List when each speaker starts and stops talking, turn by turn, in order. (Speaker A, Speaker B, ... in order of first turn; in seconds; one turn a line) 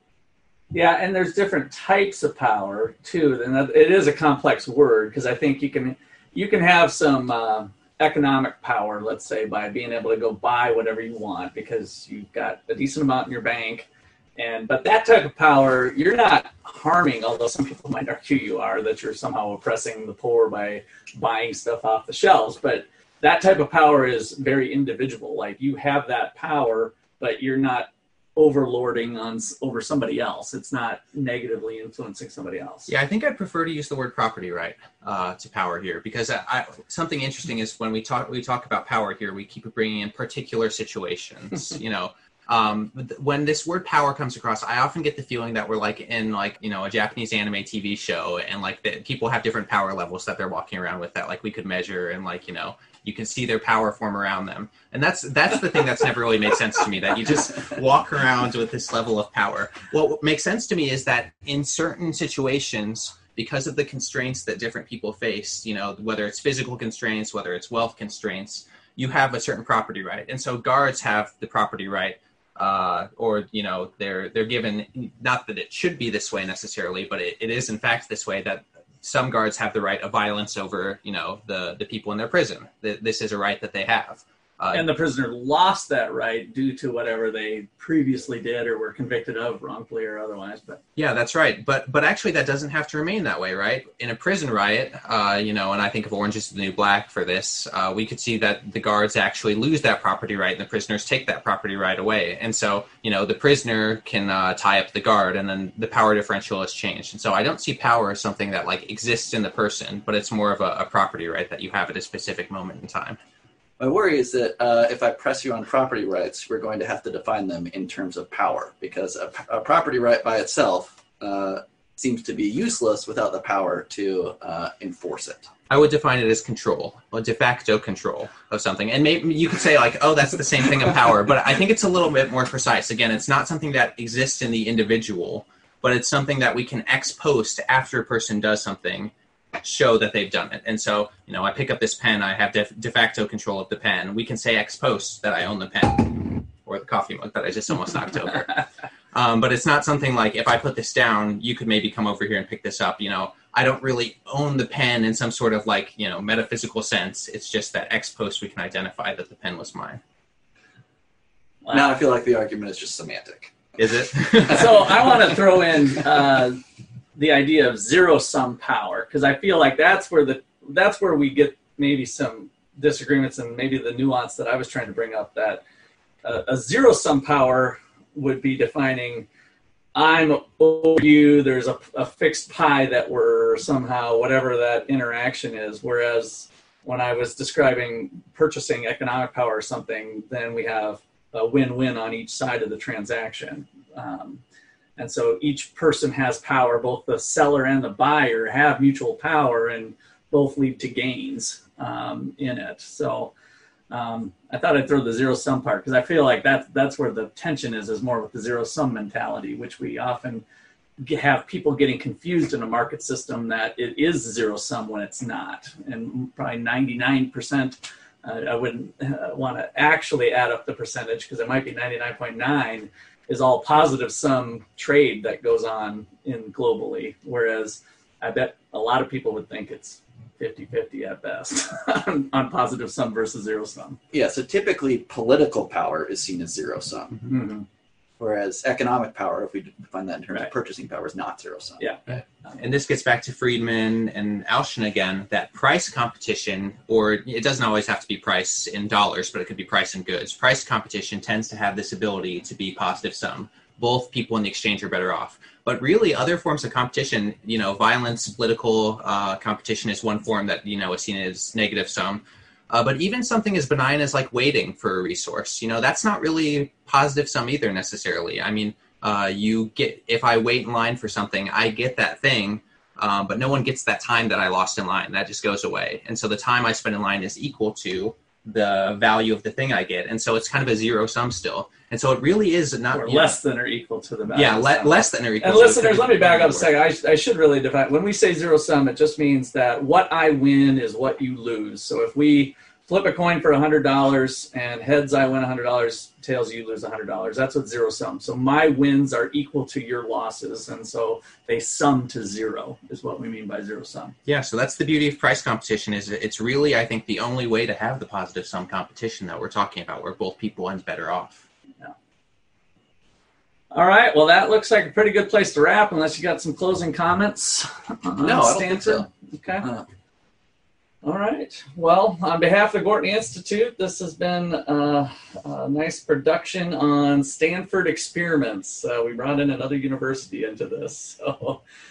Speaker A: 0.7-32.9
Speaker B: 32.9-84.9
Speaker A: 84.7-90.8
Speaker B: 91.0-113.2
Speaker C: 113.8-125.5
Speaker B: 125.7-160.0
Speaker A: 161.6-161.9
Speaker C: 161.7-163.8
Speaker B: 163.8-164.9
Speaker C: 164.3-164.9
Speaker A: 164.4-166.6
Speaker A: 167.2-175.6
Speaker A: 176.2-179.3
Speaker A: 179.9-194.4
Speaker A: 195.0-203.3
Speaker A: 203.9-210.4
Speaker A: 211.0-234.0
Speaker C: 234.1-237.2
Speaker A: 237.2-237.7
Speaker C: 238.2-242.2
Speaker A: 241.8-242.6
Speaker B: 242.6-283.4
Speaker A: 282.9-304.1
Speaker B: 284.3-286.7
Speaker B: 304.2-311.4
Speaker A: 313.7-319.7
Speaker C: 318.2-319.1
Speaker C: 319.6-319.9
Speaker A: 321.0-331.6